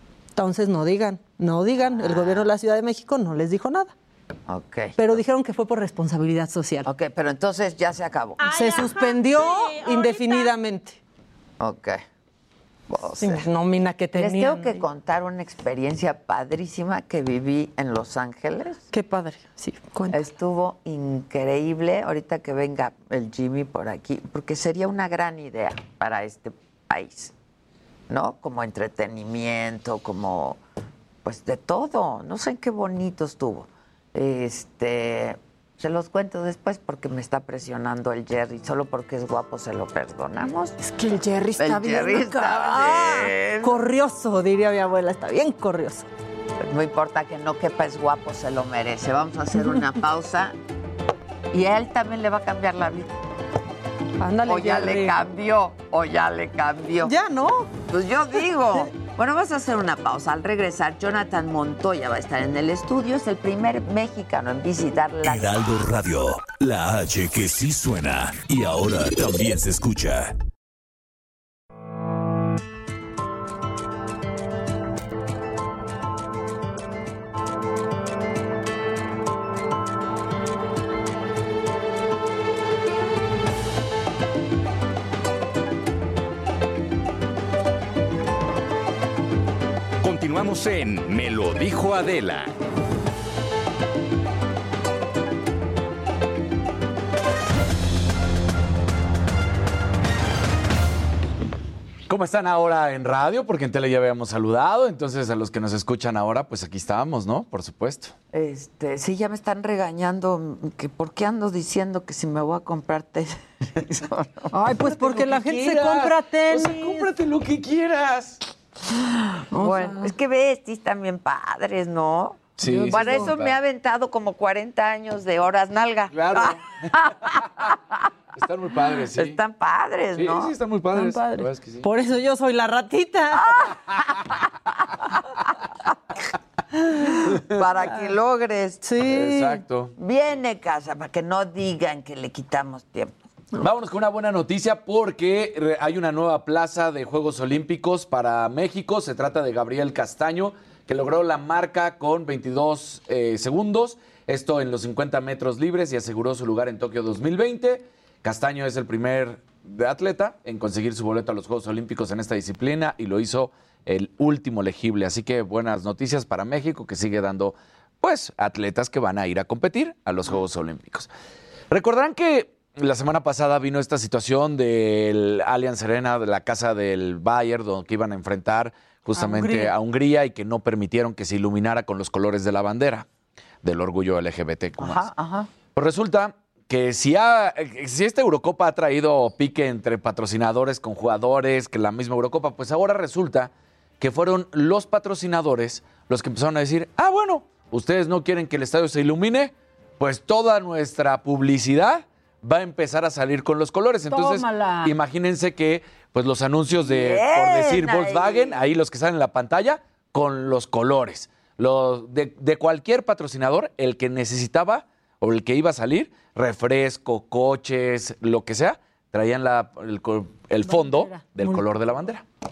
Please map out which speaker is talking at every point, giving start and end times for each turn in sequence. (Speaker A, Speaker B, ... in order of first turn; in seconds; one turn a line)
Speaker A: 0.3-3.9
Speaker B: 1.8-2.5
Speaker B: 4.5-5.2
Speaker A: 5.0-6.9
Speaker B: 6.8-9.0
Speaker A: 8.4-11.0
Speaker B: 11.6-12.0
Speaker B: 12.9-13.5
Speaker A: 13.2-14.8
Speaker B: 14.1-18.8
Speaker A: 18.9-20.2
Speaker B: 20.1-27.3
Speaker B: 28.1-30.6
Speaker B: 31.2-40.8
Speaker A: 40.8-46.1
Speaker B: 41.6-43.8
Speaker B: 46.6-50.5
Speaker B: 51.5-53.1
Speaker A: 54.2-55.2
Speaker B: 54.4-57.1
Speaker A: 57.0-57.7
Speaker B: 57.9-65.5
Speaker C: 65.2-70.3
Speaker D: 90.0-92.5
Speaker E: 102.1-108.1
Speaker B: 108.3-114.5
Speaker A: 114.5-117.1
Speaker E: 114.9-118.4
Speaker B: 118.9-127.9
Speaker A: 119.5-120.1
Speaker E: 122.6-123.6
Speaker A: 122.6-123.3
Speaker E: 126.1-126.6
Speaker E: 128.3-129.4
Speaker B: 129.1-130.5
Speaker E: 130.1-131.9
Speaker A: 130.9-133.6
Speaker B: 133.4-134.2
Speaker A: 136.9-137.2
Speaker B: 137.0-138.8
Speaker A: 138.8-139.6
Speaker E: 139.0-139.9
Speaker B: 140.0-143.2
Speaker E: 143.6-171.1
Speaker E: 171.7-183.1
Speaker A: 179.2-179.7
Speaker E: 183.6-185.1
Speaker B: 184.8-185.5
Speaker E: 185.7-222.2
Speaker A: 204.1-204.9
Speaker B: 206.8-208.6
Speaker A: 220.6-221.6